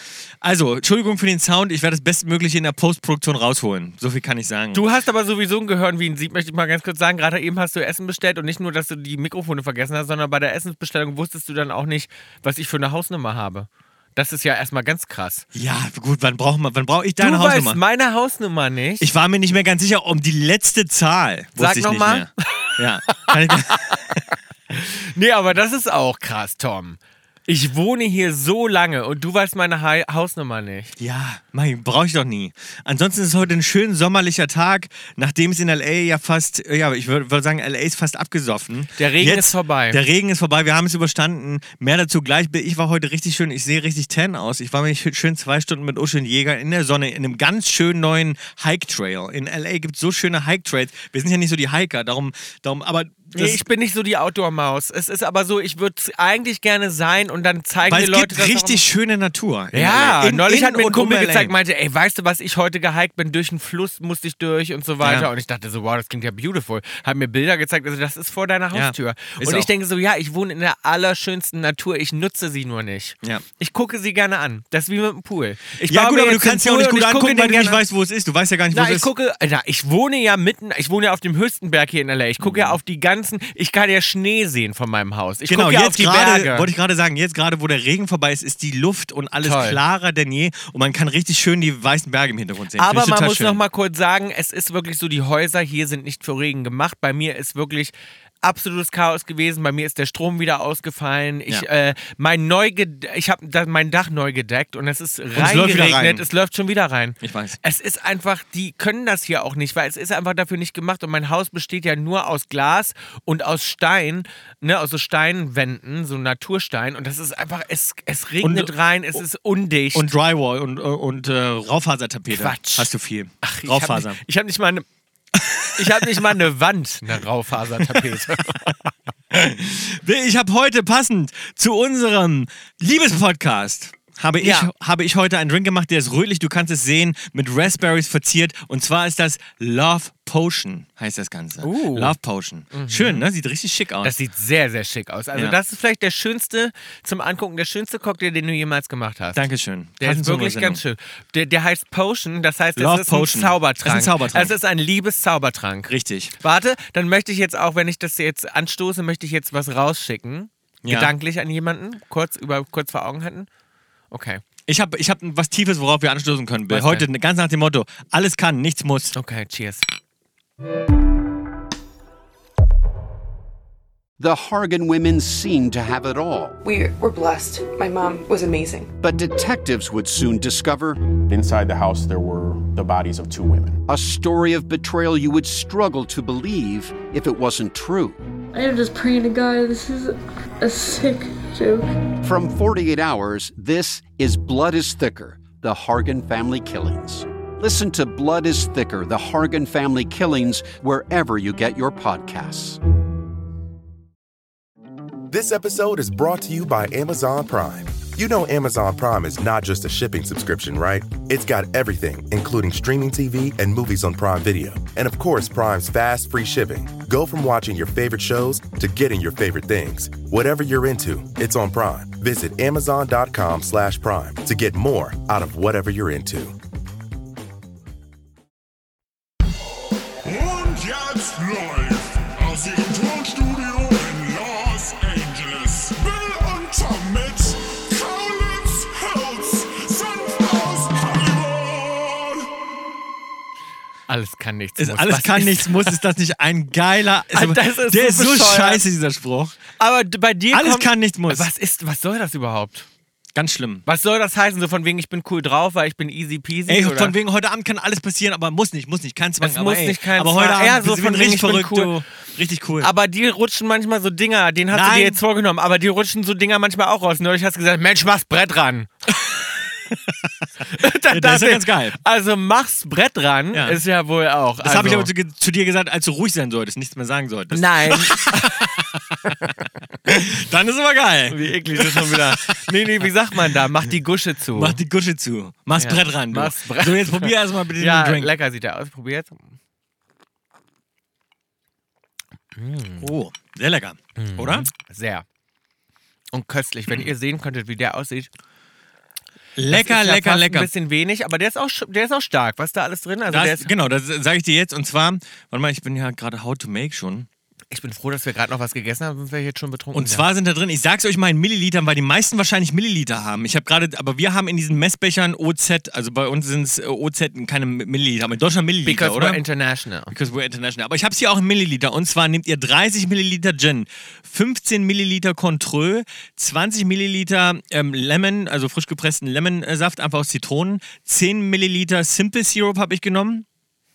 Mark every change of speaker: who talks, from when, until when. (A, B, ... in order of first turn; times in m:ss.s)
0:00.4-0:04.8 A
0:04.7-0:15.4 B
0:15.5-0:17.8 A
0:17.2-0:19.1 B
0:19.0-0:23.9 A
0:21.6-0:24.2 B
0:24.7-0:30.9 B
0:31.0-0:53.6 A
0:39.0-0:40.0 B
0:53.3-0:58.8 B
0:57.8-1:01.5 A
0:59.7-1:17.8 B
1:05.0-1:05.3 A
1:08.7-1:09.7 A
1:15.9-1:19.1 A
1:18.7-1:26.7 B
1:22.4-1:22.8 A
1:25.5-1:33.6 A
1:29.4-1:29.8 B
1:32.8-2:00.1 B
1:45.3-1:46.2 A
1:47.2-1:47.6 A
1:58.4-1:58.7 A
1:59.9-2:04.2 A
2:02.3-2:02.9 B
2:03.4-2:04.8 B
2:05.3-2:06.1 A
2:05.7-2:08.9 B
2:09.3-2:24.1 A
2:14.4-2:14.7 B
2:21.6-2:22.1 B
2:22.7-2:23.2 B
2:24.0-2:29.4 B
2:29.3-2:30.8 A
2:30.0-2:43.5 B
2:32.8-2:34.6 A
2:35.9-2:36.3 A
2:40.8-2:41.1 A
2:44.1-2:44.4 B
2:44.7-2:49.1 A
2:46.7-2:47.1 B
2:49.1-2:49.8 B
2:54.2-2:56.6 C
2:56.6-2:58.9 D
2:59.0-3:01.0 C
3:01.2-3:03.8 E
3:03.9-3:08.2 C
3:08.5-3:11.9 F
3:12.2-3:22.8 C
3:25.3-3:46.5 G
3:50.2-4:02.5 H
4:04.1-4:06.0 B
4:04.8-4:09.6 A
4:07.3-4:08.8 B
4:09.8-4:12.8 B
4:10.5-4:11.5 A
4:13.3-4:13.8 A
4:13.8-4:17.1 B
4:16.7-4:22.9 A
4:19.4-4:21.9 B
4:22.8-4:28.9 B
4:24.7-4:25.2 A
4:29.9-4:30.3 A
4:30.7-4:35.1 B
4:30.8-4:32.0 A
4:33.5-4:33.8 A
4:34.6-4:39.5 A
4:37.5-4:38.6 B
4:40.0-4:42.6 A
4:41.3-4:44.8 B
4:43.3-4:43.6 A
4:44.5-4:48.3 A
4:45.8-4:49.5 B
4:52.6-4:53.1 B
4:53.0-4:54.7 A
4:54.2-4:55.2 B
4:56.3-4:58.3 B
4:59.6-5:00.7 A
4:59.7-5:03.7 B
5:03.3-5:07.3 A
5:07.7-5:10.2 B
5:09.9-5:19.4 A
5:18.8-5:20.1 B
5:20.1-5:33.4 A